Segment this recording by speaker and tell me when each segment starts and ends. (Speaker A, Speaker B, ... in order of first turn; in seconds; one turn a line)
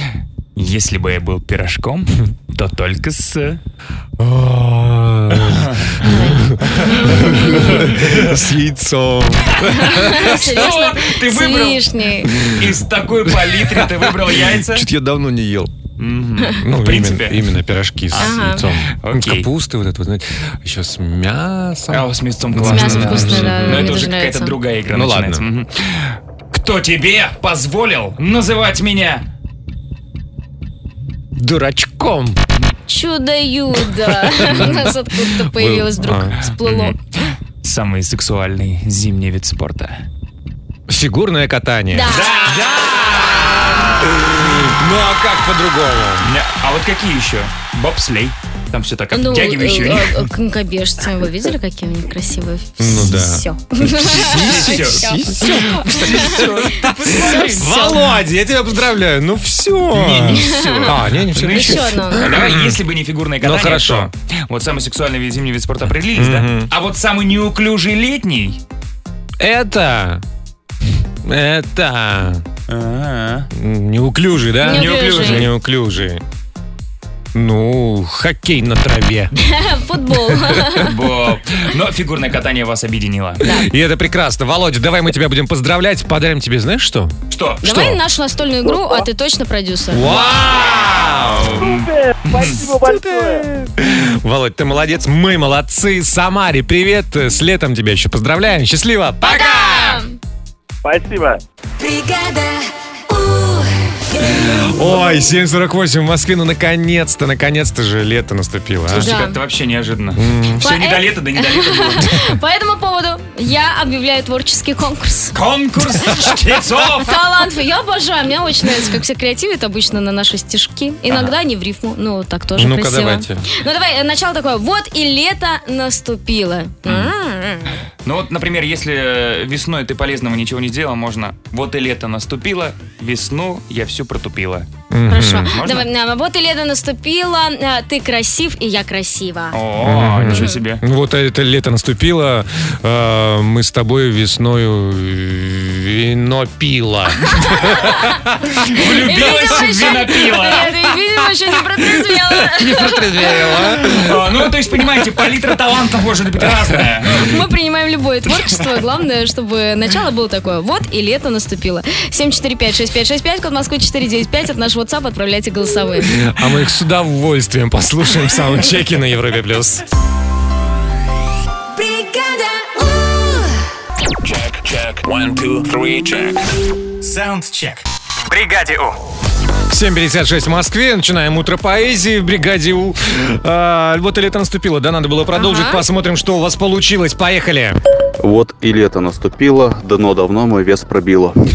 Speaker A: 0.6-3.6
Speaker B: 4.2-10.7
Speaker A: 5.5-5.9
Speaker C: 6.0-7.8
Speaker A: 7.8-8.2
Speaker C: 9.8-12.3
Speaker A: 10.2-11.8
Speaker B: 12.3-12.7
Speaker A: 12.4-14.9
Speaker B: 13.5-15.7
Speaker A: 16.0-17.5
Speaker B: 16.6-23.9
Speaker A: 18.1-19.5
Speaker C: 18.2-18.6
Speaker A: 21.9-29.2
Speaker C: 22.6-24.5
Speaker B: 24.9-25.4
Speaker B: 31.4-32.4
Speaker C: 32.9-37.0
Speaker B: 34.2-34.9
Speaker B: 35.5-36.4
Speaker A: 36.6-37.0
Speaker A: 37.6-40.0
Speaker B: 40.9-46.3
Speaker C: 41.9-42.6
Speaker A: 43.7-44.1
Speaker A: 46.2-50.1
Speaker C: 49.1-56.4
Speaker B: 52.8-62.8
Speaker A: 54.0-58.0
Speaker C: 57.2-57.9
Speaker A: 59.9-68.6
Speaker C: 60.3-60.9
Speaker C: 61.5-62.2
Speaker B: 63.4-64.1
Speaker B: 66.1-66.7
Speaker B: 69.4-70.2
Speaker B: 71.2-72.5
Speaker A: 72.7-73.5
Speaker B: 73.5-76.2
Speaker C: 74.6-75.4
Speaker A: 74.7-75.5
Speaker B: 77.3-79.3
Speaker C: 79.4-80.9
Speaker B: 80.1-80.6
Speaker A: 80.8-83.5
Speaker B: 83.4-88.0
Speaker A: 87.3-87.6
Speaker C: 87.6-90.1
Speaker B: 89.9-91.6
Speaker A: 90.2-92.6
Speaker D: 91.6-93.4
Speaker B: 92.7-100.0
Speaker C: 99.2-100.1
Speaker D: 100.8-101.4
Speaker E: 101.8-104.3
Speaker B: 104.4-109.1
Speaker A: 108.9-112.1
Speaker C: 108.9-109.4
Speaker B: 110.2-110.6
Speaker C: 110.6-115.3
Speaker A: 115.3-117.2
Speaker C: 117.0-127.8
Speaker A: 121.1-121.3
Speaker B: 122.6-123.5
Speaker A: 128.0-134.7
Speaker B: 134.9-135.5
Speaker C: 135.1-139.6
Speaker A: 135.2-135.9
Speaker A: 139.5-140.8
Speaker B: 139.8-148.4
Speaker C: 140.3-140.6
Speaker C: 147.3-148.1
Speaker A: 148.6-150.8
Speaker C: 148.8-153.4
Speaker B: 152.6-154.2
Speaker A: 153.5-157.4
Speaker C: 157.2-166.2
Speaker B: 166.1-169.8
Speaker E: 171.7-173.7
Speaker F: 174.2-176.4
Speaker B: 179.7-187.8
Speaker C: 185.3-185.8
Speaker G: 188.2-191.3